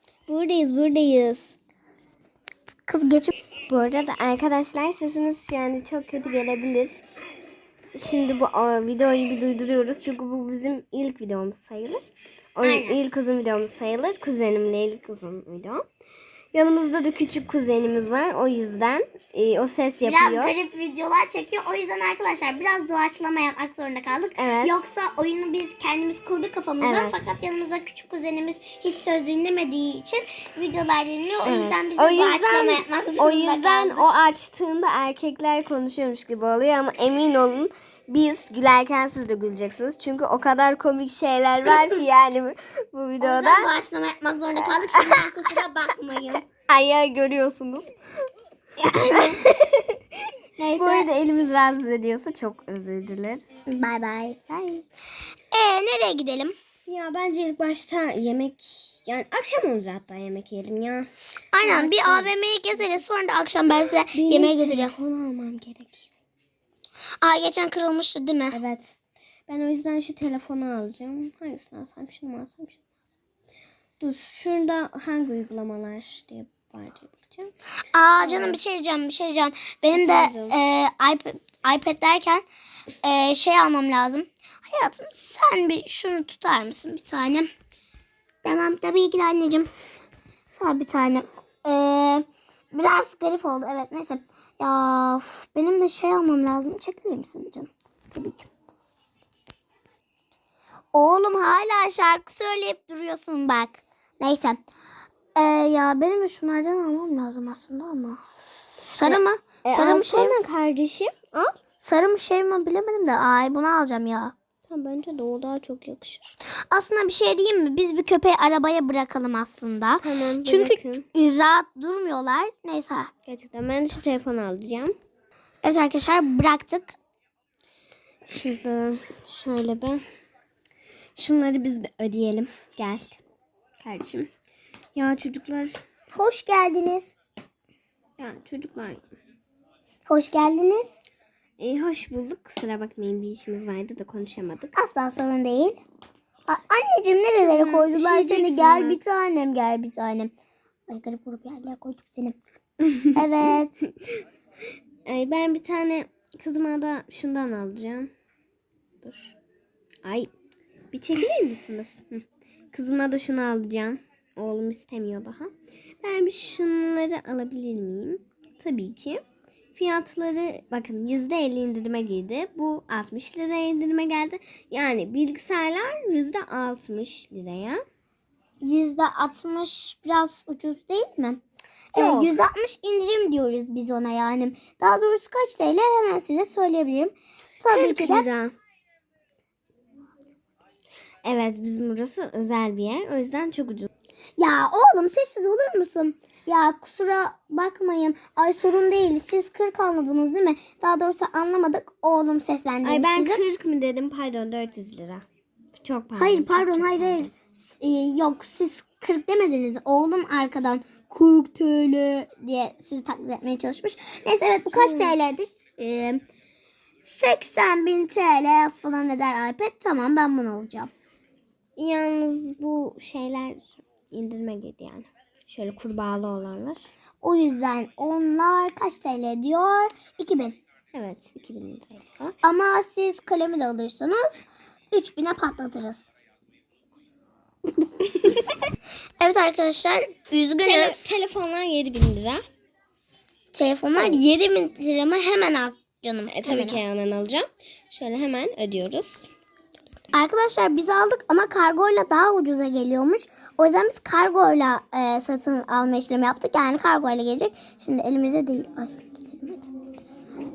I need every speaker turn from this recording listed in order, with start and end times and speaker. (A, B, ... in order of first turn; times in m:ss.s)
0:00.3-0:01.6 A
0:02.9-0:03.3 B
0:03.7-0:07.0 A
0:08.0-0:15.8 A
0:12.6-0:13.0 B
0:16.5-0:20.5 A
0:20.0-0:34.1 B
0:24.4-0:24.8 A
0:26.8-0:27.2 A
0:31.4-0:43.7 A
0:41.6-0:42.0 B
0:43.2-0:46.4 B
0:44.6-0:45.3 A
0:46.7-0:48.0 A
0:48.8-0:50.0 B
0:49.1-0:49.4 A
0:50.6-0:51.1 B
0:50.8-0:53.6 A
0:53.7-0:54.4 B
0:54.5-0:54.8 A
0:55.5-0:56.6 B
0:56.9-1:01.1 A
1:01.5-1:04.9 B
1:01.6-1:02.4 A
1:04.1-1:06.1 A
1:07.2-1:08.6 B
1:08.5-1:09.0 A
1:09.5-1:12.8 A
1:14.0-1:17.5 A
1:17.9-1:22.5 B
1:18.2-1:18.6 A
1:19.9-1:20.6 A
1:23.0-1:27.5 B
1:28.4-1:29.7 B
1:30.5-1:38.5 B
1:40.9-1:44.6 B
1:45.4-1:48.2 B
1:48.8-1:50.4 B
1:49.0-1:51.6 A
1:51.8-1:54.3 B
1:54.7-1:56.3 A
1:56.7-2:03.1 B
2:00.0-2:01.1 A
2:03.3-2:05.0 A
2:05.6-2:07.0 B
2:08.3-2:10.0 A
2:11.2-2:13.2 A
2:13.8-2:14.3 A
2:15.0-2:15.8 A
2:16.1-2:17.2 B
2:18.2-2:19.0 A
2:20.1-2:21.0 B
2:21.6-2:24.8 A
2:24.8-2:25.8 B
2:26.5-2:30.3 B
2:27.4-2:29.0 A
2:30.9-2:32.4 B
2:33.1-2:33.8 B
2:35.1-2:38.1 A
2:39.0-2:39.4 A
2:40.0-2:40.3 A
2:40.9-2:57.8 A
2:58.6-3:01.4 B
3:01.9-3:08.3 B
3:02.0-3:02.4 A
3:07.7-3:08.6 A
3:11.2-3:13.9 A
3:14.4-3:23.4 B
3:22.8-3:25.2 A
3:25.8-3:27.3 A
3:26.2-3:36.2 B
3:34.8-3:35.1 A
3:37.0-3:40.9 B
3:41.8-3:46.8 A
3:47.2-3:50.6 B
3:50.9-3:52.4 A
3:52.4-3:56.1 B
3:59.2-4:01.0 B
4:00.6-4:02.4 A
4:03.5-4:06.8 B
4:04.0-4:04.2 A
4:06.3-4:09.3 A
4:10.1-4:19.7 B